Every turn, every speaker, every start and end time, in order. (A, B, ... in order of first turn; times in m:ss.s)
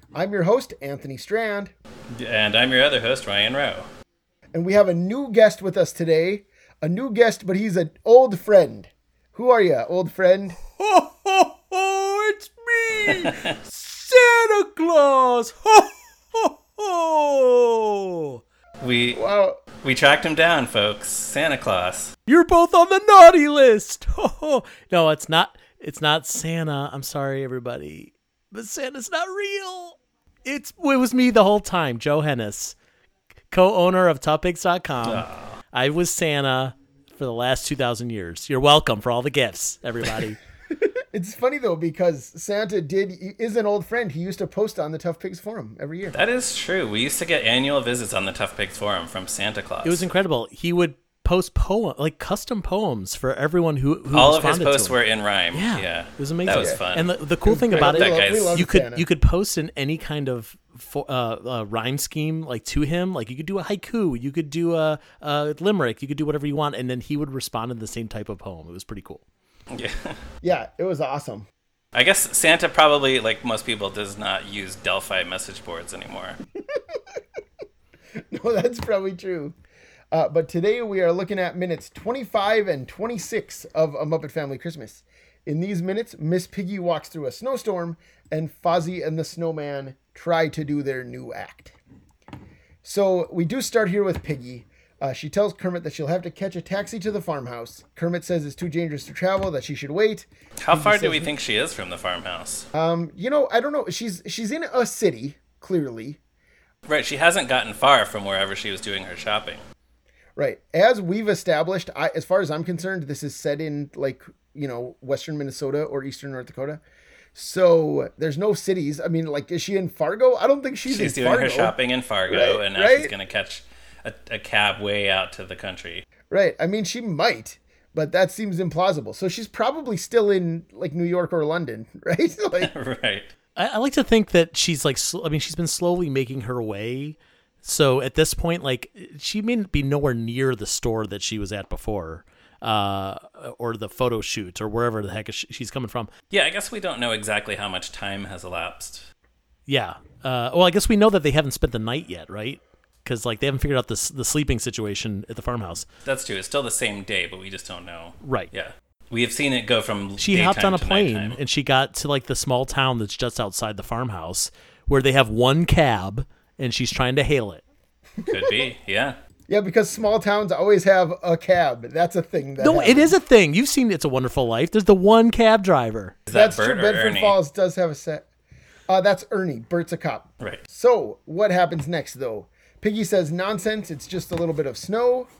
0:00.1-0:01.7 A
0:02.1-0:03.9 B
0:04.5-0:10.6 A
0:10.8-0:18.4 C
0:13.2-0:13.5 B
0:18.8-0:19.2 B
0:19.1-0:19.6 A
0:19.8-0:22.1 B
0:22.3-0:32.8 C
0:33.5-0:40.4 C
0:35.0-0:35.6 B
0:41.1-0:46.2 A
0:46.1-0:50.0 B
0:49.8-0:55.0 C
0:54.1-0:57.1 B
0:55.5-1:09.2 C
0:56.5-0:56.8 A
0:57.4-0:59.0 A
0:57.7-0:58.7 B
1:09.7-1:10.2 B
1:10.4-1:11.4 A
1:11.9-1:16.4 B
1:18.2-1:19.6 A
1:20.1-1:31.8 A
1:32.8-1:41.3 A
1:40.6-1:42.7 B
1:42.7-1:46.2 A
1:46.9-1:49.6 B
1:50.4-1:56.8 A
1:57.3-2:01.8 A
2:00.8-2:06.0 B
2:02.3-2:03.1 A
2:06.3-2:12.7 A
2:12.6-2:13.3 B
2:13.6-2:26.1 C
2:26.3-2:29.1 B
2:29.7-2:35.8 C
2:36.0-2:41.4 B
2:38.2-2:38.5 C
2:40.2-2:47.6 C
2:48.2-2:48.7 A
2:48.2-2:49.2 B
2:49.5-2:53.2 A
2:52.6-2:56.2 C
2:56.3-2:57.4 B
2:56.3-2:58.2 A
2:58.9-3:05.3 A